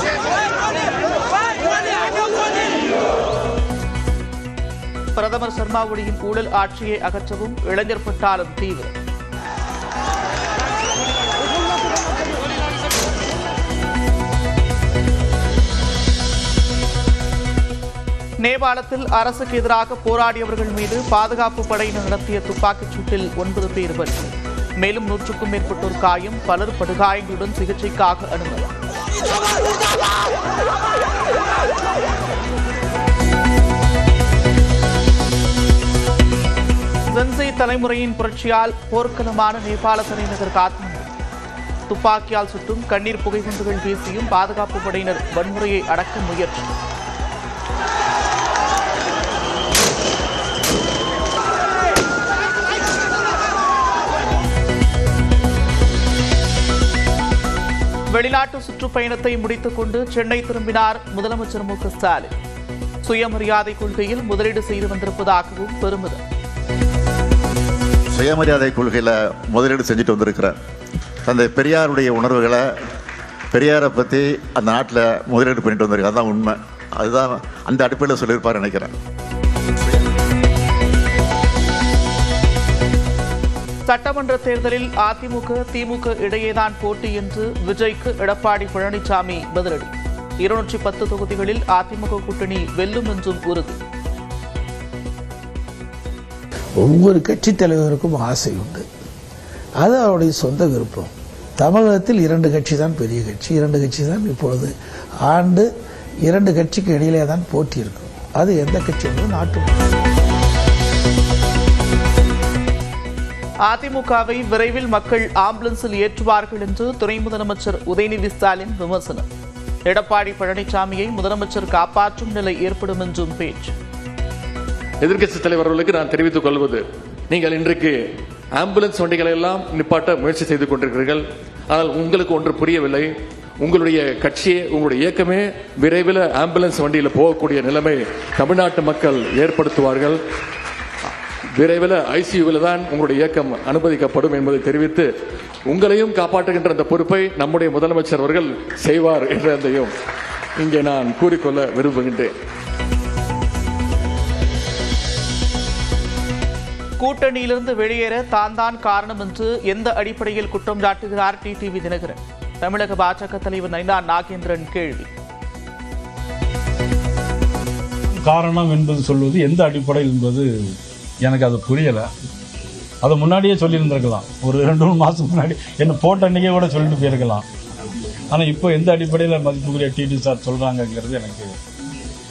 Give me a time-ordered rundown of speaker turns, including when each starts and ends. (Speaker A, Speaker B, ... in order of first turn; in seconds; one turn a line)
Speaker A: 5.1-8.9
Speaker A: 18.4-28.7
Speaker A: 37.1-41.1
Speaker A: 41.9-46.7
Speaker A: 58.1-62.3
Speaker A: 63.0-66.2
Speaker B: 68.1-70.5
Speaker B: 71.2-72.7
Speaker B: 73.5-78.9
Speaker A: 83.8-93.8
Speaker C: 96.8-98.8
Speaker C: 99.8-104.7
Speaker C: 105.2-105.7
Speaker C: 106.2-109.9
Speaker A: 113.7-119.2
Speaker A: 119.8-123.7
Speaker D: 125.0-128.0
Speaker D: 128.6-140.2
Speaker D: 141.6-145.1
Speaker D: 145.7-149.9
Speaker D: 150.6-152.3
Speaker A: 157.0-165.1
Speaker E: 168.2-172.1
Speaker E: 173.0-177.4
Speaker E: 178.3-181.5